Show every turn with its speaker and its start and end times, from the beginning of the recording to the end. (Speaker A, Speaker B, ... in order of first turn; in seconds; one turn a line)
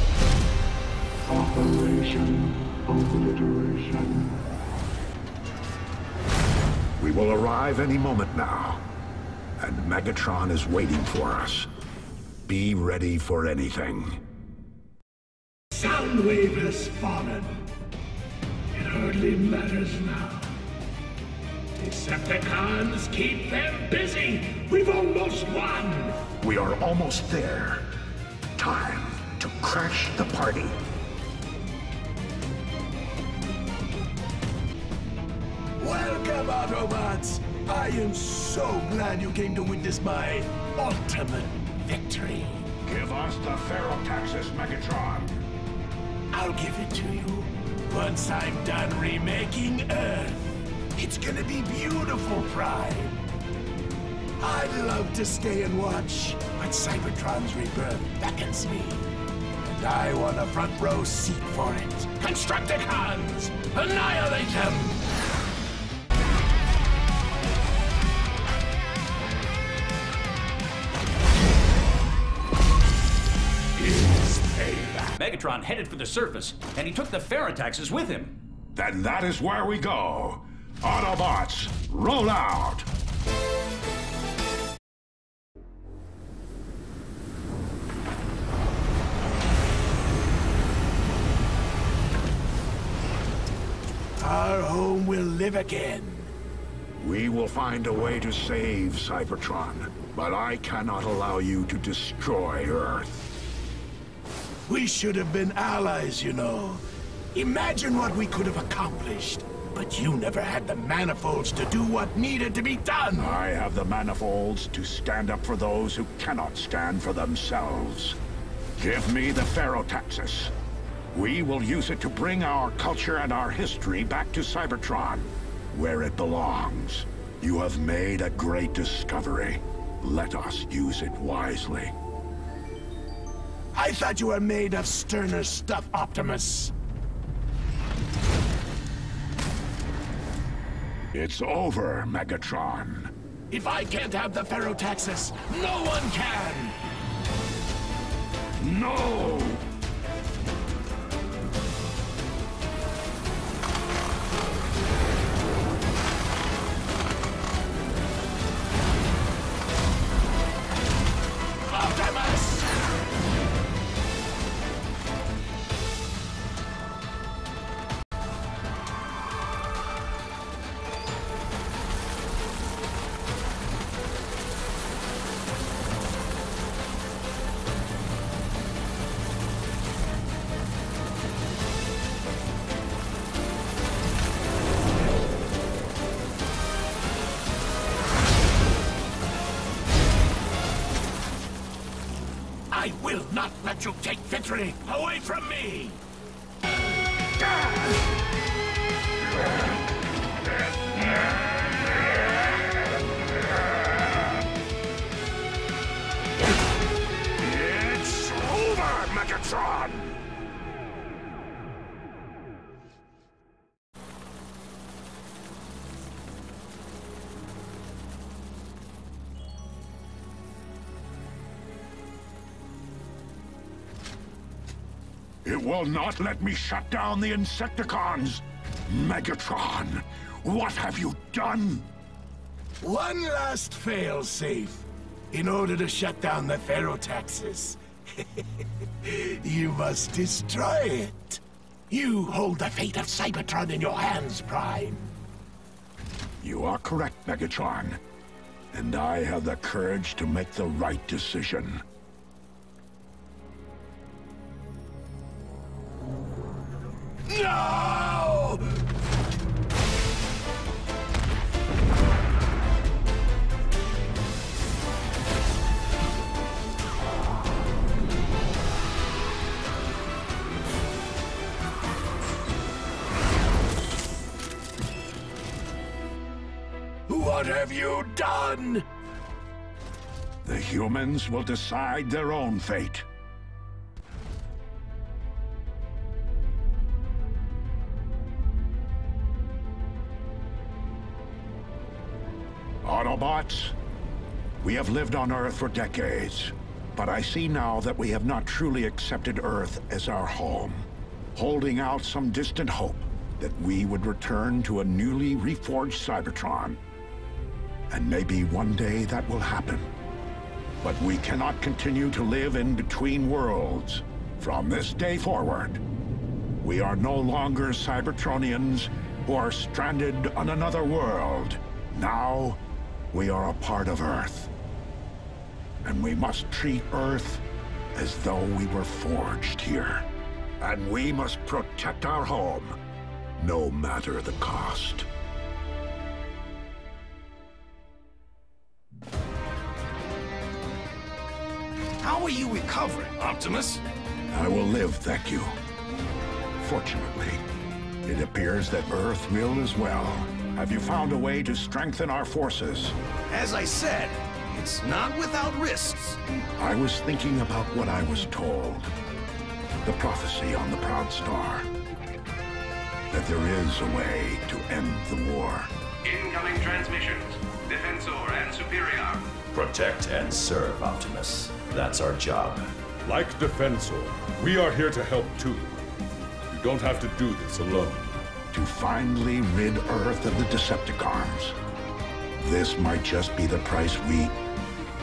Speaker A: 1.2-4.4
Speaker B: 7.0-8.8
Speaker B: 9.6-11.7
Speaker B: 12.4-14.2
Speaker C: 15.7-17.6
Speaker C: 18.7-20.5
Speaker C: 21.8-26.2
Speaker B: 26.4-27.9
Speaker B: 28.6-30.8
Speaker C: 35.8-42.7
Speaker B: 42.8-45.3
Speaker C: 46.3-53.1
Speaker C: 54.4-59.1
Speaker C: 59.6-65.0
Speaker C: 73.8-75.1
Speaker D: 75.2-78.4
Speaker B: 78.7-82.9
Speaker C: 94.2-96.3
Speaker B: 97.0-103.2
Speaker C: 104.7-106.8
Speaker C: 107.3-113.3
Speaker B: 113.2-118.2
Speaker B: 118.8-120.5
Speaker B: 121.1-131.9
Speaker C: 133.7-136.7
Speaker B: 141.1-143.1
Speaker C: 143.5-146.8
Speaker B: 148.6-149.6
Speaker C: 161.7-162.7
Speaker C: 192.7-196.0
Speaker B: 207.4-210.2
Speaker B: 225.4-231.9
Speaker C: 232.8-245.1
Speaker B: 246.4-248.0
Speaker B: 248.7-251.8
Speaker C: 257.3-258.7
Speaker C: 277.1-278.8
Speaker B: 280.4-283.1
Speaker B: 292.8-293.8
Speaker B: 294.6-306.8
Speaker B: 307.9-309.9
Speaker B: 310.8-315.8
Speaker B: 316.6-322.6
Speaker B: 323.1-324.5
Speaker B: 325.8-327.4
Speaker B: 327.9-330.1
Speaker B: 330.6-332.8
Speaker B: 333.4-335.1
Speaker E: 342.0-343.8
Speaker B: 344.3-345.5
Speaker B: 346.6-347.4
Speaker B: 348.0-353.0
Speaker E: 353.3-356.2
Speaker B: 356.6-358.9
Speaker B: 359.8-361.7
Speaker B: 363.1-365.7
Speaker F: 366.0-369.2
Speaker G: 369.5-372.6
Speaker H: 373.0-375.8
Speaker H: 376.5-378.0
Speaker B: 378.5-381.6
Speaker B: 382.4-384.4